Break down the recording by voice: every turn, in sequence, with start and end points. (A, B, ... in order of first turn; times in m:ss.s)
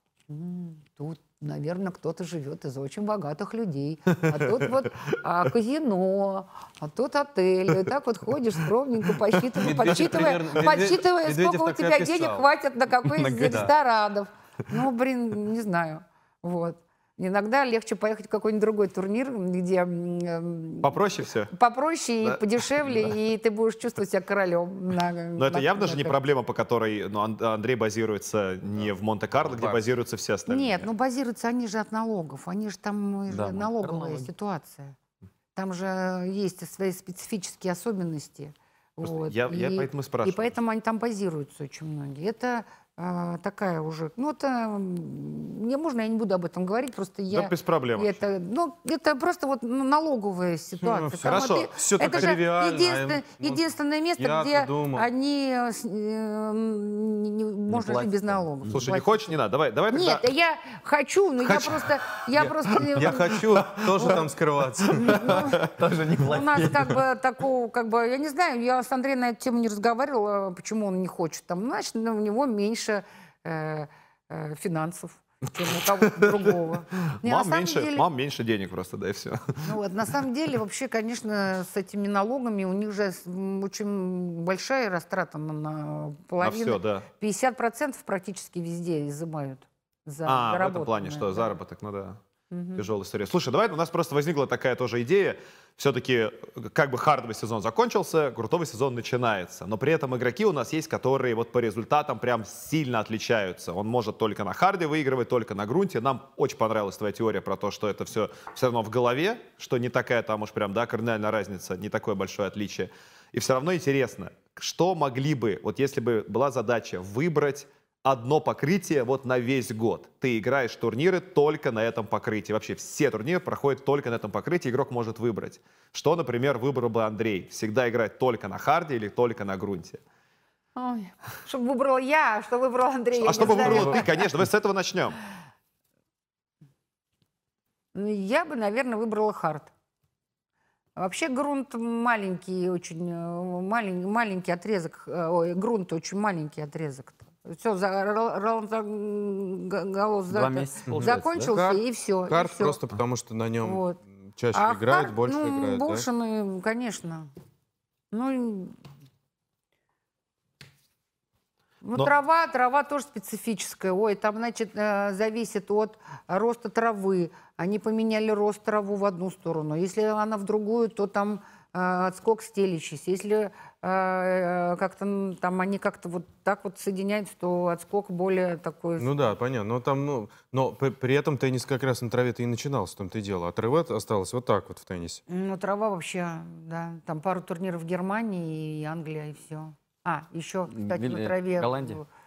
0:00.3-0:26.2 A
0:09.6-0:12.5 B
0:13.1-0:13.7 C
0:13.4-0:13.7 B
0:20.8-0:21.5 D
0:22.2-0:23.1 D
0:25.4-0:30.9 D
0:29.4-0:29.8 B
0:30.5-0:35.0 A
0:33.3-0:34.3 C
0:35.5-0:59.3 A
0:39.0-0:40.6 D
0:47.3-0:48.2 D
0:50.8-0:53.6 B
0:51.2-0:51.7 D
0:54.2-0:55.1 B
0:57.7-0:58.7 C
0:58.7-1:00.2 D
0:59.9-1:04.2 A
1:02.4-1:05.2 B
1:03.6-1:04.0 D
1:04.9-1:05.7 A
1:05.2-1:07.0 C
1:06.2-1:18.1 A
1:17.0-1:19.7 D
1:19.6-1:31.6 A
1:26.4-1:27.0 D
1:30.2-1:32.2 D
1:32.5-1:32.8 A
1:32.8-2:10.0 D
2:10.8-2:14.2 A
2:13.2-2:15.2 D
2:17.9-2:19.7 A
2:21.0-2:32.8 A
2:30.3-2:31.5 C
2:30.9-2:36.1 B
2:33.6-2:34.0 A
2:34.5-2:37.3 A
2:38.1-2:38.8 A
2:41.8-2:59.1 A
2:59.0-3:05.2 B
3:05.3-3:12.1 A
3:10.7-3:12.0 C